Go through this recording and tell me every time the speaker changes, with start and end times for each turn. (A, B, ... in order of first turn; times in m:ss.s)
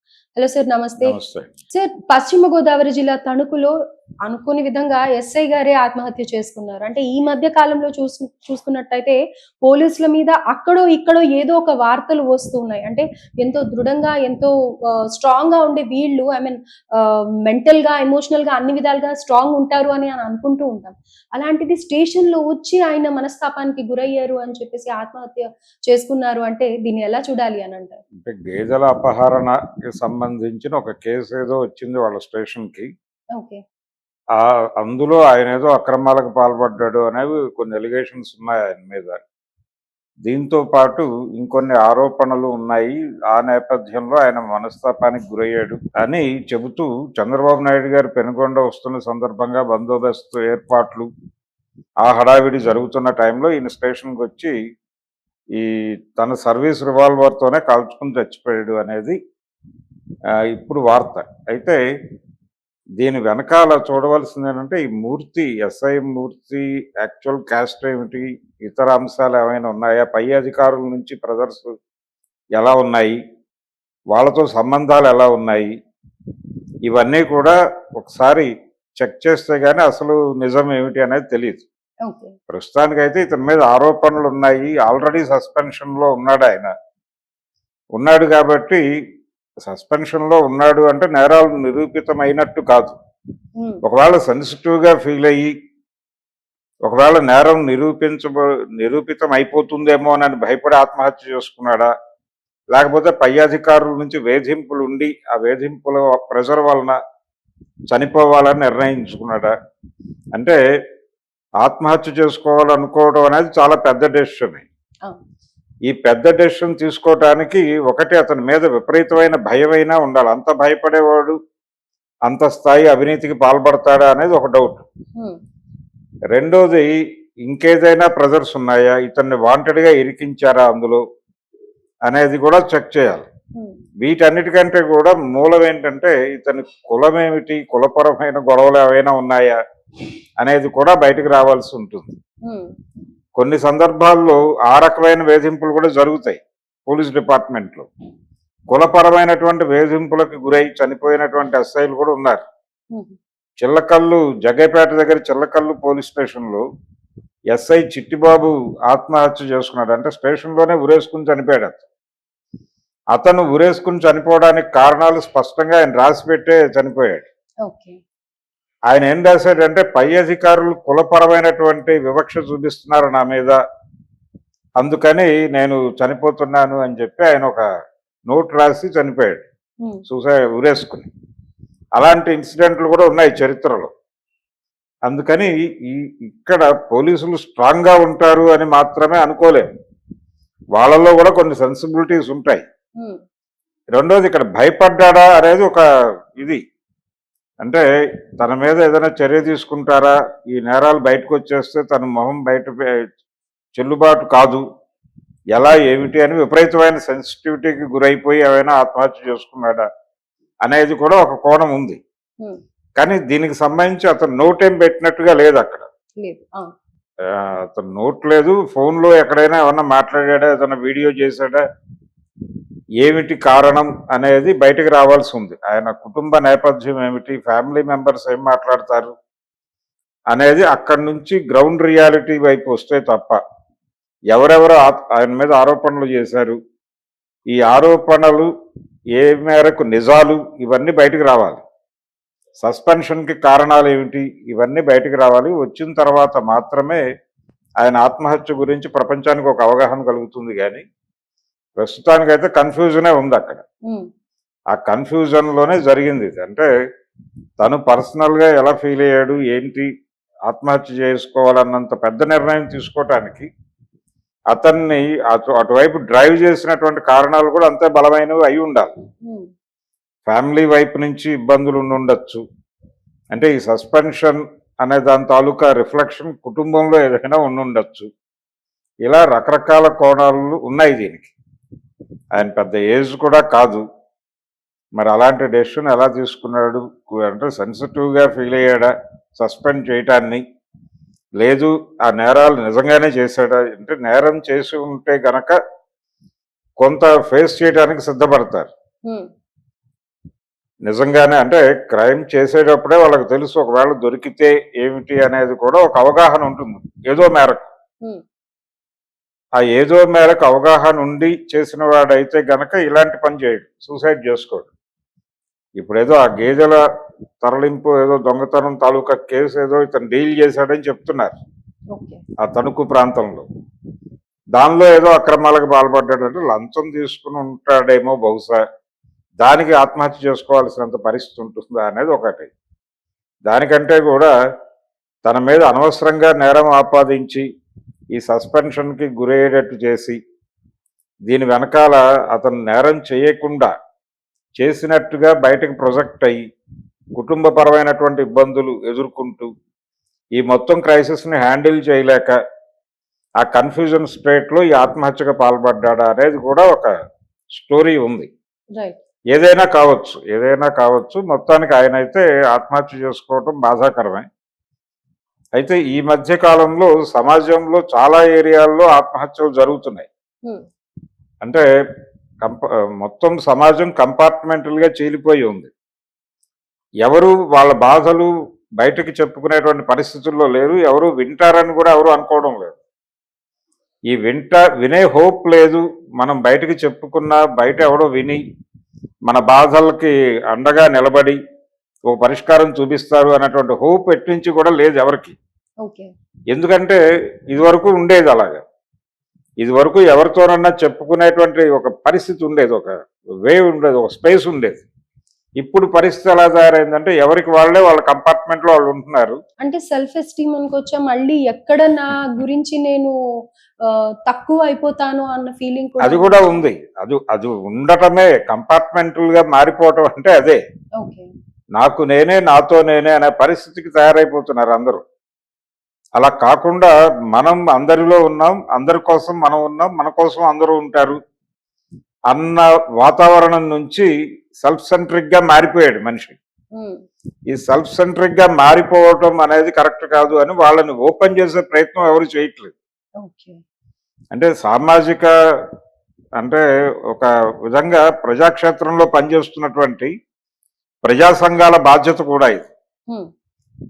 0:00.4-0:01.2 A
0:01.0-0:01.5 B
0:01.7-0:03.7 A
0:04.3-0:14.5 A
0:15.1-0:28.0 A
0:28.2-0:32.9 B
0:33.4-0:33.6 A
0:34.4-0:39.2 B
0:40.3-0:51.1 B
0:52.0-0:54.5 B
0:55.6-0:59.2 B
1:00.5-1:01.8 B
1:03.0-1:11.7 B
1:12.6-1:13.2 B
1:14.1-1:15.7 B
1:16.9-1:21.6 B
1:22.0-1:22.4 A
1:22.5-1:26.7 B
1:28.0-1:28.8 B
1:29.7-1:33.0 B
1:33.6-1:33.8 A
1:33.8-1:35.5 B
1:36.8-1:41.9 B
1:42.7-1:47.0 B
1:47.9-1:49.5 B
1:51.6-1:54.6 B
1:55.9-2:01.4 B
2:02.3-2:04.8 B
2:06.3-2:06.9 B
2:07.5-2:11.0 B
2:12.1-2:13.3 B
2:14.0-2:19.6 B
2:20.4-2:22.2 B
2:22.5-2:22.7 A
2:23.4-2:27.9 B
2:28.7-2:32.4 B
2:33.6-2:36.6 B
2:37.5-2:41.8 B
2:43.1-2:47.3 B
2:47.7-2:48.0 A
2:48.9-2:53.6 B
2:54.8-2:57.6 B
2:58.3-2:59.4 B
3:00.1-3:01.1 B
3:02.0-3:03.9 B
3:05.1-3:09.7 B
3:10.8-3:12.6 B
3:13.9-3:15.8 B
3:18.4-3:23.0 B
3:23.8-3:24.6 B
3:25.5-3:29.9 B
3:30.6-3:32.0 B
3:33.0-3:35.9 B
3:36.2-3:36.7 A
3:37.3-3:41.6 B
3:43.0-3:49.1 B
3:50.3-3:53.4 B
3:54.3-3:56.6 B
3:57.5-3:58.5 B
3:59.2-4:01.6 B
4:02.6-4:07.0 B
4:07.8-4:10.8 B
4:11.8-4:13.6 B
4:14.7-4:16.7 B
4:17.6-4:19.9 B
4:20.5-4:23.5 B
4:24.5-4:28.9 B
4:30.3-4:32.4 B
4:33.3-4:38.1 B
4:39.1-4:41.3 B
4:42.3-4:43.8 B
4:45.0-4:50.4 B
4:51.4-4:55.6 B
4:56.8-4:58.7 B
5:00.9-5:07.7 B
5:09.6-5:14.7 B
5:15.8-5:16.8 B
5:17.4-5:21.4 B
5:21.9-5:22.2 A
5:22.4-5:23.4 B
5:24.6-5:28.6 B
5:29.4-5:32.5 B
5:33.5-5:34.3 B
5:35.2-5:37.4 B
5:38.1-5:40.2 B
5:41.3-5:43.7 B
5:44.6-5:46.4 B
5:47.2-5:49.5 B
5:50.4-5:52.4 B
5:53.4-5:56.9 B
5:57.6-5:58.3 B
5:59.3-6:04.3 B
6:05.6-6:10.1 B
6:12.4-6:15.7 B
6:17.0-6:18.3 B
6:18.8-6:22.8 B
6:24.1-6:28.4 B
6:29.3-6:31.4 B
6:32.1-6:35.4 B
6:35.8-6:36.1 A
6:36.5-6:37.0 B
6:37.5-6:38.6 B
6:39.6-6:42.9 B
6:43.4-6:44.8 B
6:45.6-6:49.4 B
6:49.6-6:53.1 A
6:53.8-6:56.6 A
6:56.0-7:00.6 B
7:01.0-7:01.3 A
7:01.8-7:05.0 B
7:06.2-7:11.2 B
7:12.3-7:14.1 B
7:14.6-7:16.4 B
7:16.8-7:17.0 A
7:17.5-7:22.7 B
7:23.2-7:23.6 A
7:24.3-7:25.3 B
7:26.4-7:30.1 B
7:31.0-7:32.7 B